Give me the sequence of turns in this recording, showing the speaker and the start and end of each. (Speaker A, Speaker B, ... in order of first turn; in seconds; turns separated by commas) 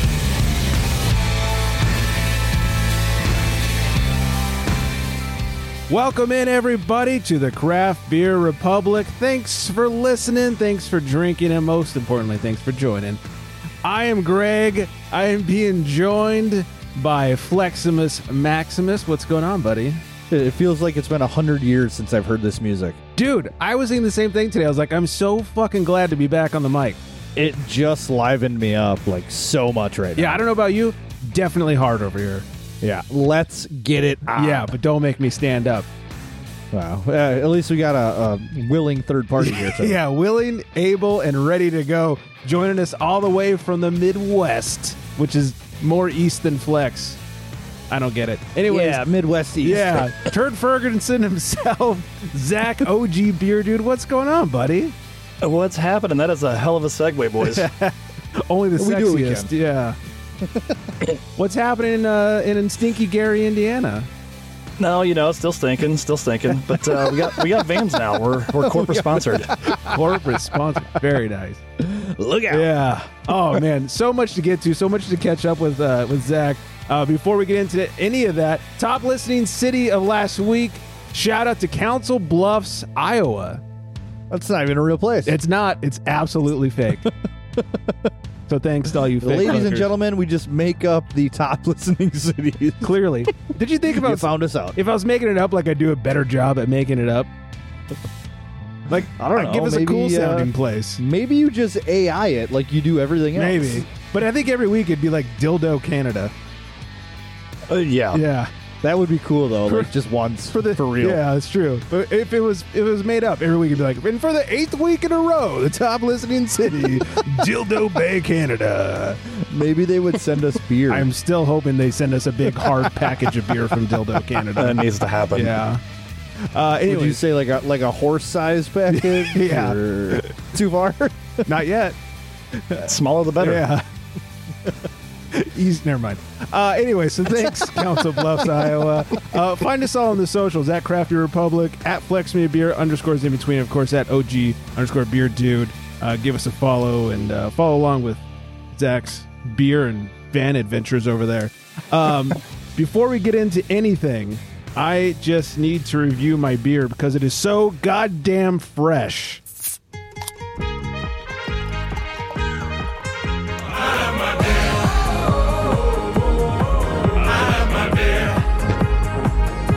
Speaker A: 5.9-13.2, Speaker A: 13.8-20.0, Speaker B: 20.3-23.0, Speaker A: 23.1-27.0, Speaker B: 27.4-30.4, Speaker A: 30.2-32.4, Speaker B: 32.8-34.7, Speaker A: 34.3-35.9, Speaker B: 36.7-40.0, Speaker A: 39.4-47.2, Speaker A: 47.9-49.1, Speaker B: 48.7-50.1, Speaker A: 49.6-54.9, Speaker C: 55.4-57.6, Speaker A: 57.4-60.0, Speaker B: 58.8-59.5, Speaker B: 60.4-60.9, Speaker A: 61.4-64.1, Speaker C: 64.8-69.5, Speaker B: 66.8-70.4, Speaker A: 69.6-71.6, Speaker B: 71.8-72.7, Speaker A: 72.5-83.6, Speaker B: 73.3-73.6, Speaker B: 84.3-85.4, Speaker A: 85.2-87.1, Speaker B: 87.6-88.1, Speaker A: 88.5-89.9, Speaker B: 89.2-92.9, Speaker A: 92.8-97.3, Speaker B: 93.9-94.8, Speaker A: 98.9-101.0, Speaker B: 99.2-103.8, Speaker A: 103.3-106.3, Speaker C: 107.7-108.2, Speaker A: 108.1-108.5, Speaker B: 108.8-110.6, Speaker A: 110.5-119.2, Speaker C: 110.8-111.2, Speaker B: 119.3-121.1, Speaker A: 120.9-125.8, Speaker B: 122.6-123.1, Speaker C: 124.5-125.6, Speaker A: 126.4-127.2, Speaker B: 126.9-131.5, Speaker A: 128.9-130.3, Speaker A: 131.5-131.9, Speaker A: 132.5-132.8, Speaker C: 132.8-133.6, Speaker A: 133.4-133.8, Speaker A: 135.3-159.4, Speaker B: 138.0-138.9